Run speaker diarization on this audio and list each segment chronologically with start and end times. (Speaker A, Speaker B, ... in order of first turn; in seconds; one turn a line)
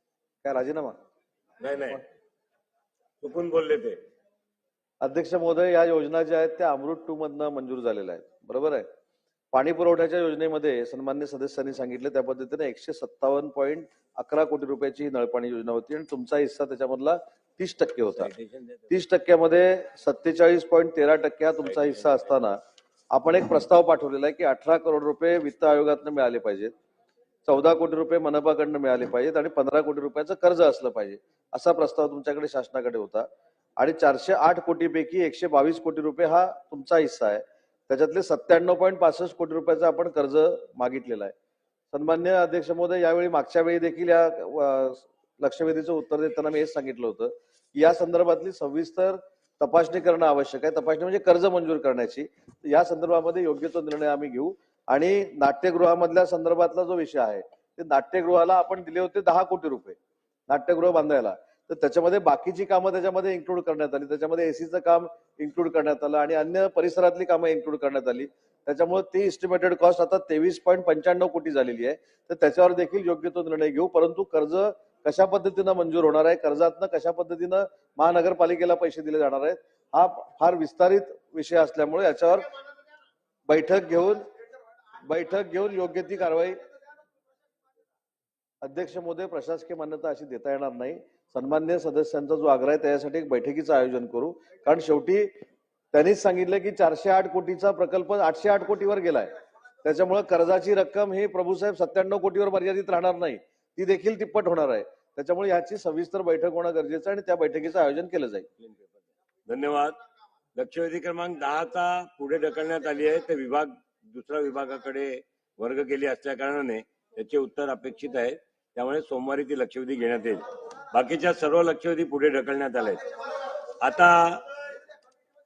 Speaker A: 0.4-1.0
Speaker B: 1.6-2.0
Speaker B: 3.2-4.0
Speaker A: 5.0-8.9
Speaker A: 9.5-18.3
Speaker B: 18.1-18.9
Speaker A: 18.9-22.6
Speaker B: 21.6-22.2
Speaker A: 23.1-26.7
Speaker A: 27.4-33.3
Speaker A: 33.8-41.3
Speaker A: 41.9-60.0
Speaker A: 60.5-82.5
Speaker A: 83.5-84.2
Speaker A: 85.1-86.6
Speaker A: 88.6-95.3
Speaker A: 95.9-99.3
Speaker A: 99.8-108.5
Speaker B: 108.6-108.9
Speaker B: 109.5-110.0
Speaker B: 110.5-124.5